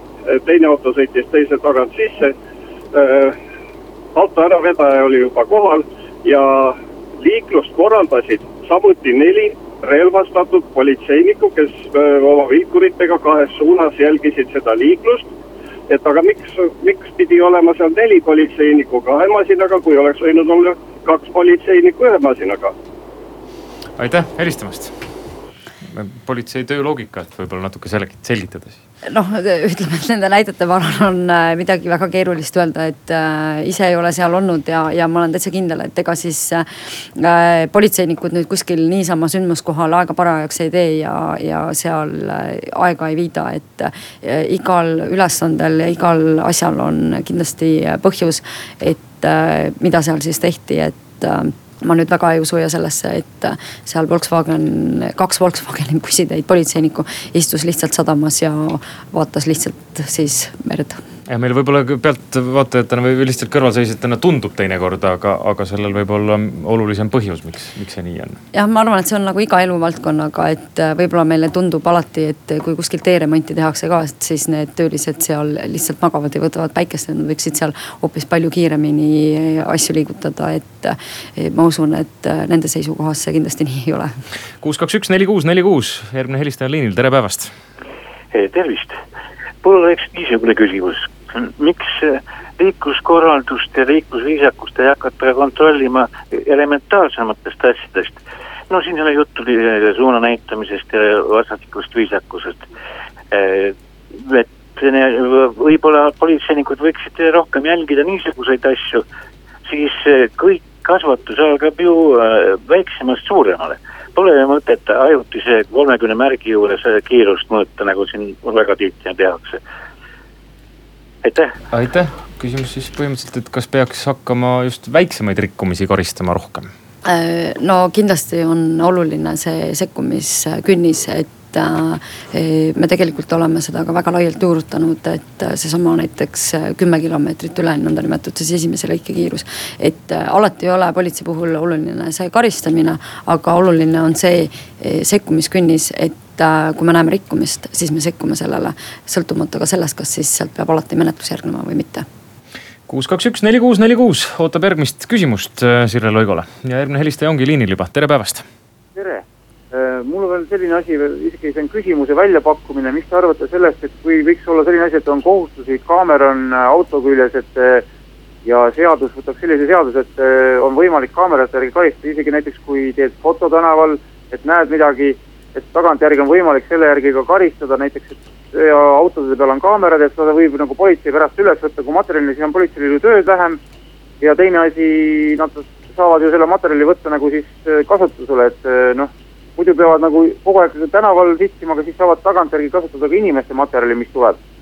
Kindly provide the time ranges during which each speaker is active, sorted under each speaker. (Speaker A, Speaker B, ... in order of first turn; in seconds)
Speaker A: 0.3-2.3, 2.9-3.4, 4.1-15.3, 15.9-22.7
Speaker B: 24.0-24.9, 25.9-28.8, 61.3-68.4, 84.6-87.5, 121.7-126.7, 152.9-158.4
Speaker C: 29.1-36.6, 37.1-61.0, 68.5-84.1, 127.0-152.1
Speaker D: 88.3-89.0, 89.6-102.6, 103.3-109.0, 109.7-119.6, 121.2-121.5
Speaker E: 158.9-167.8, 168.4-183.6, 184.2-194.4